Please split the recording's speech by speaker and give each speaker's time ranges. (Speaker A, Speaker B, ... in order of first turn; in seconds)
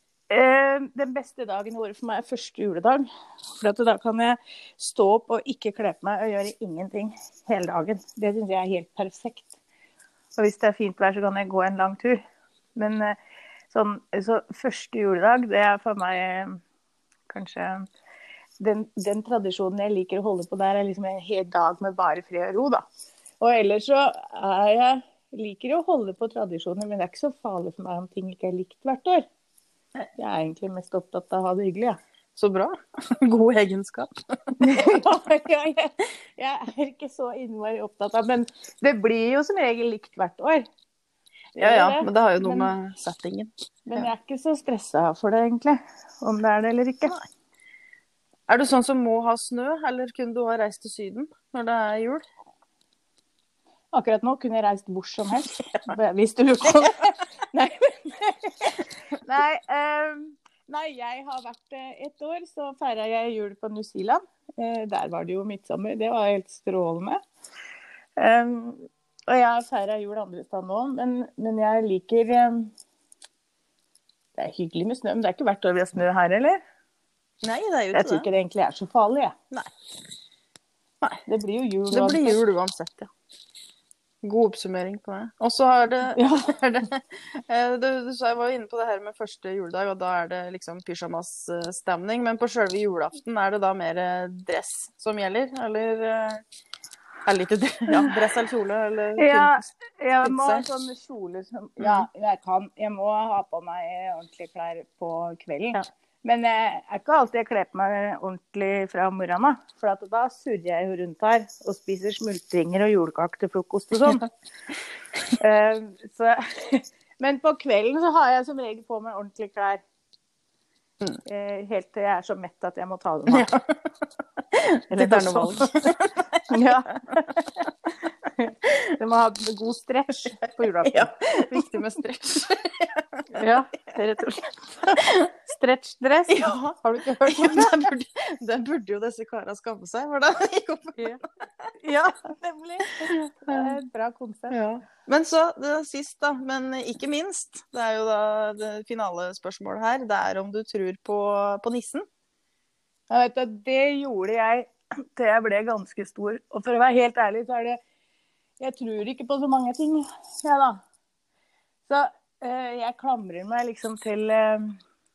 Speaker A: 0.3-9.5, 10.3-12.2, 12.7-13.2, 13.7-16.6, 17.3-17.9, 18.6-22.8, 23.4-29.2, 30.2-32.0, 34.6-40.6, 41.5-42.7, 43.9-47.1, 53.9-67.2, 68.2-72.7, 74.4-76.6, 77.9-79.3, 81.2-82.4, 86.1-86.6, 99.2-114.3, 115.3-119.8, 121.2-123.5, 124.9-125.7, 126.5-127.6, 128.4-131.6, 133.3-137.9, 141.8-144.6, 153.1-157.8, 158.6-160.8, 161.9-164.8
Speaker B: 32.3-34.1, 41.6-44.1, 48.5-52.2, 77.4-78.3, 81.9-83.1, 84.2-96.4, 97.2-99.7, 100.2-100.6, 101.8-102.1, 123.3-123.6, 124.5-126.2, 130.8-133.5, 136.3-141.7, 143.0-143.7, 144.5-152.1